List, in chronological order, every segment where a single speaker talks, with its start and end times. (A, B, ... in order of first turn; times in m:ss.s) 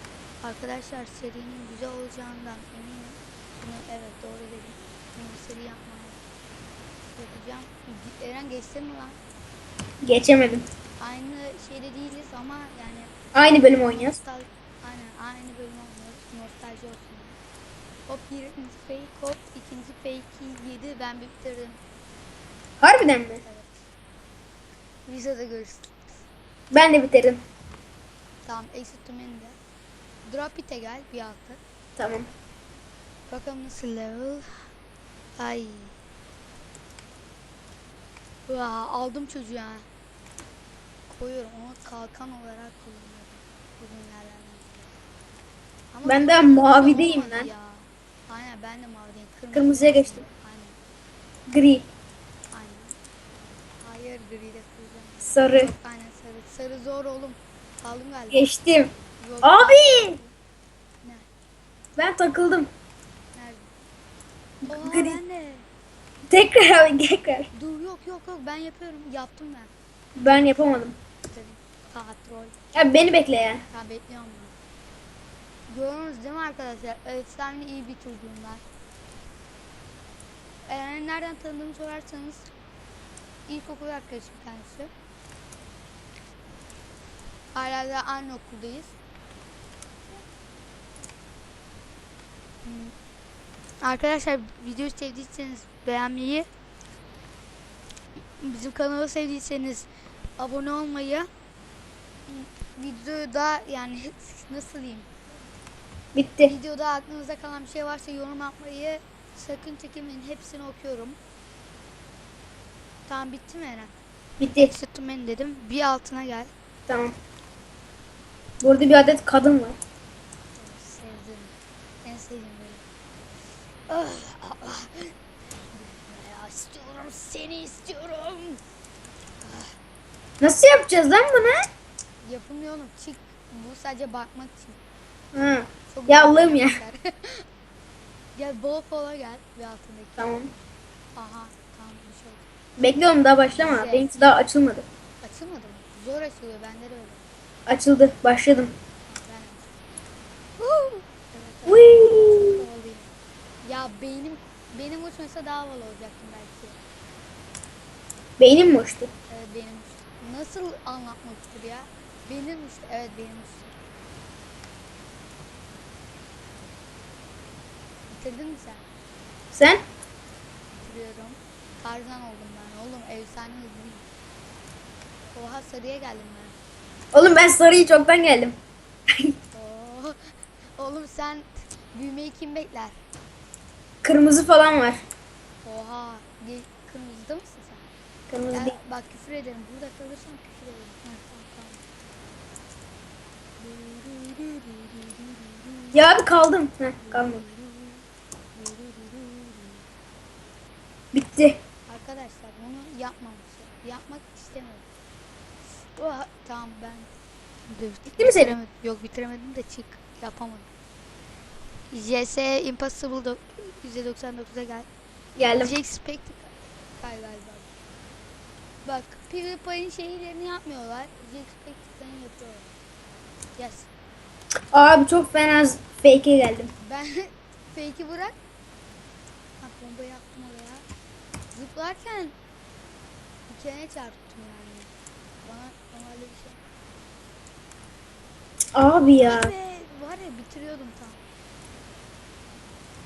0:00.4-0:06.2 A
0:07.2-0:09.2 A
0:10.0-0:10.6 B
0:11.0-0:17.4 A
0:13.4-0:14.2 B
0:18.1-0:21.8 A
0:22.8-0:23.4 B
0:23.4-0:23.9 A
0:25.1-0:26.2 A
0:26.7-0:27.4 B
0:28.4-0:29.6 A
0:30.3-0:31.6 A
0:32.0-0:32.3 B
0:33.3-0:34.7 A
0:35.4-0:36.0 A
0:38.5-0:39.9 A
0:41.1-0:45.0 A
0:45.9-0:50.8 A
0:46.0-0:47.5 B
0:49.5-0:50.2 B
0:51.5-0:51.8 B
0:52.5-0:53.0 A
0:53.8-0:58.5 A
0:55.3-0:55.7 B
0:58.3-0:58.9 B
0:59.2-1:00.3 A
0:59.4-1:00.2 B
1:01.0-1:01.3 A
1:02.0-1:02.7 B
1:03.3-1:03.7 A
1:04.6-1:05.2 B
1:04.7-1:05.7 A
1:06.3-1:07.5 B
1:07.5-1:09.7 A
1:10.2-1:11.0 B
1:11.3-1:12.6 A
1:12.8-1:13.6 B
1:13.7-1:14.6 A
1:15.7-1:18.7 A
1:20.7-1:22.5 A
1:23.5-1:24.9 A
1:27.5-1:28.9 A
1:32.6-1:33.0 A
1:33.8-1:36.5 A
1:38.4-1:41.3 A
1:42.3-1:45.1 A
1:46.2-1:46.5 B
1:46.4-1:51.2 A
1:53.1-1:53.9 A
1:54.4-1:54.7 B
1:54.6-1:56.5 A
1:56.9-1:57.1 B
1:58.6-1:59.8 B
2:00.6-2:02.8 A
2:03.9-2:08.6 A
2:09.4-2:09.8 A
2:10.4-2:11.6 B
2:12.2-2:14.8 A
2:15.3-2:16.8 B
2:15.9-2:17.4 A
2:18.4-2:20.4 A
2:20.2-2:20.5 B
2:21.2-2:22.5 A
2:22.8-2:24.8 B
2:23.5-2:24.4 A
2:25.2-2:27.3 A
2:27.7-2:28.7 B
2:29.1-2:29.7 A
2:30.6-2:33.1 A
2:31.7-2:32.6 B
2:33.6-2:36.8 A
2:38.4-2:39.1 B
2:39.3-2:43.7 A
2:48.1-2:48.9 A
2:49.5-2:49.8 B
2:50.7-2:54.1 A
2:55.3-2:56.6 A
2:57.1-2:58.6 B
2:59.5-3:03.0 A
3:04.0-3:05.0 B
3:05.6-3:07.9 A
3:08.3-3:08.8 B
3:08.5-3:11.8 A
3:13.6-3:16.0 A
3:15.9-3:17.4 B
3:17.0-3:19.8 A
3:21.1-3:21.6 B
3:21.9-3:24.9 A
3:25.8-3:27.1 A
3:27.7-3:30.7 A
3:28.2-3:28.6 B
3:31.9-3:34.9 A
3:35.4-3:35.7 B
3:35.5-3:37.7 A
3:38.8-3:42.7 A
3:43.6-3:43.9 A
3:44.7-3:46.7 B
3:46.8-3:48.4 A
3:49.6-3:50.8 A
3:51.5-3:52.4 A
3:53.5-3:54.9 A
3:55.4-3:56.6 A
3:58.8-3:59.5 B
3:59.2-4:01.2 A